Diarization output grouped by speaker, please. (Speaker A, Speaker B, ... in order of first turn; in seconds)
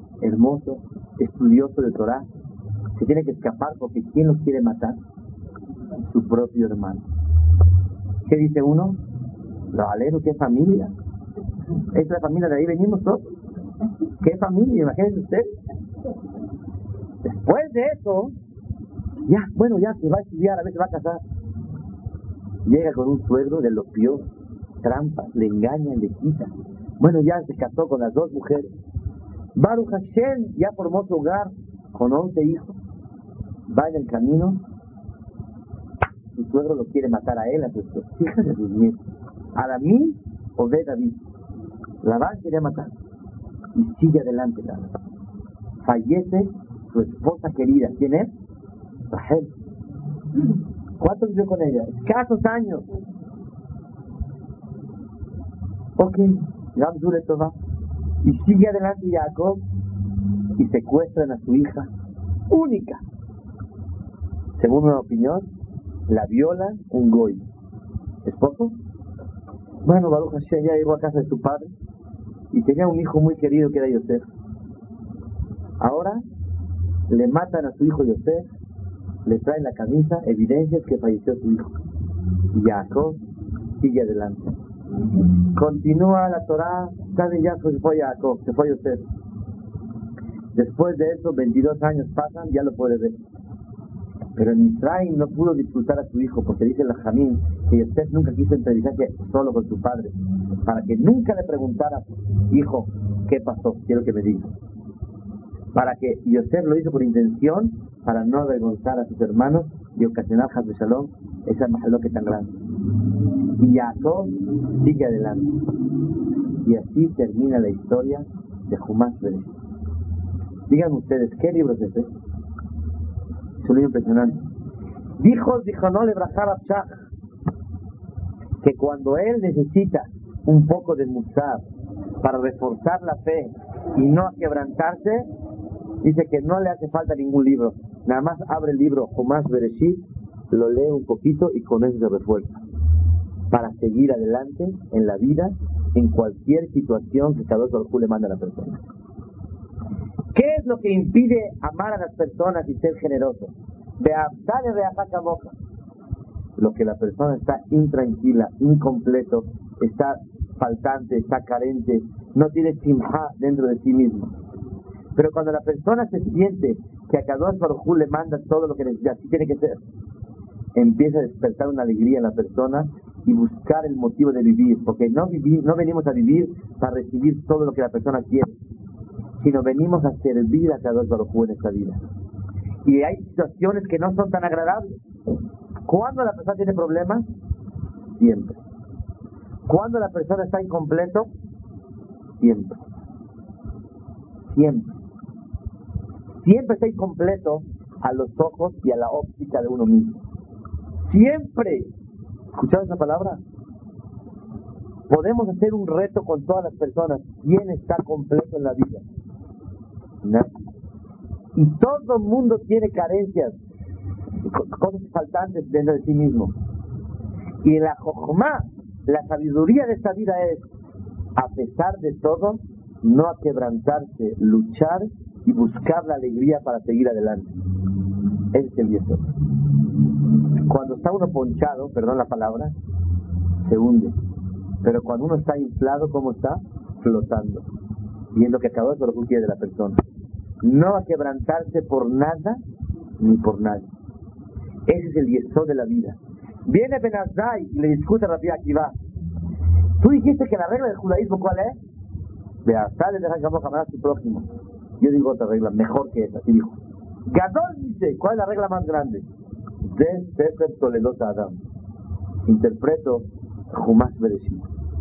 Speaker A: 0.2-2.3, 3.0-5.0, 6.1-7.0, 8.2-9.0, 9.7-10.9, 11.9-13.2, 14.2-15.5, 17.2-18.3, 19.3-21.2, 22.6-24.2, 24.8-28.7, 29.5-32.8, 33.7-34.6, 36.3-39.0, 39.5-41.2, 42.0-42.9, 43.7-44.9, 45.8-48.3, 49.1-49.5, 51.0-52.9, 56.0-57.5, 58.2-59.6, 60.6-61.9, 62.5-63.0, 64.6-65.5, 66.1-67.4, 68.2-68.7, 69.8-71.7, 72.5-74.3, 75.8-76.2, 77.1-78.5, 79.2-81.7, 82.5-83.2, 83.8-84.5, 85.5-89.0, 90.5-93.2, 94.4-100.1, 100.7-104.5, 105.7-112.5, 113.6-115.5, 116.6-119.5, 120.7-122.1, 123.6-124.4, 125.2-127.0, 128.6-131.6, 132.2-135.3, 136.0-142.6, 143.5-148.8, 150.3-155.5, 156.6-164.3, 165.2-169.8, 170.7-178.5, 179.4-182.0, 182.8-185.0, 185.9-187.2, 188.2-188.6, 189.7-191.3, 192.4-192.8, 194.5-194.9, 196.4-200.2, 201.1-201.9, 202.5-203.4, 205.1-209.0, 210.2-210.5, 211.6-213.6, 214.5-216.5, 217.6-220.7, 221.4-227.5, 228.5-229.2, 230.7-232.7, 233.6-234.2, 234.8-237.7, 238.3-240.0, 240.6-242.6, 243.2-243.9, 244.9-248.9, 250.0-251.8, 252.6-254.5, 255.0-259.3, 259.8-261.6, 262.4-264.6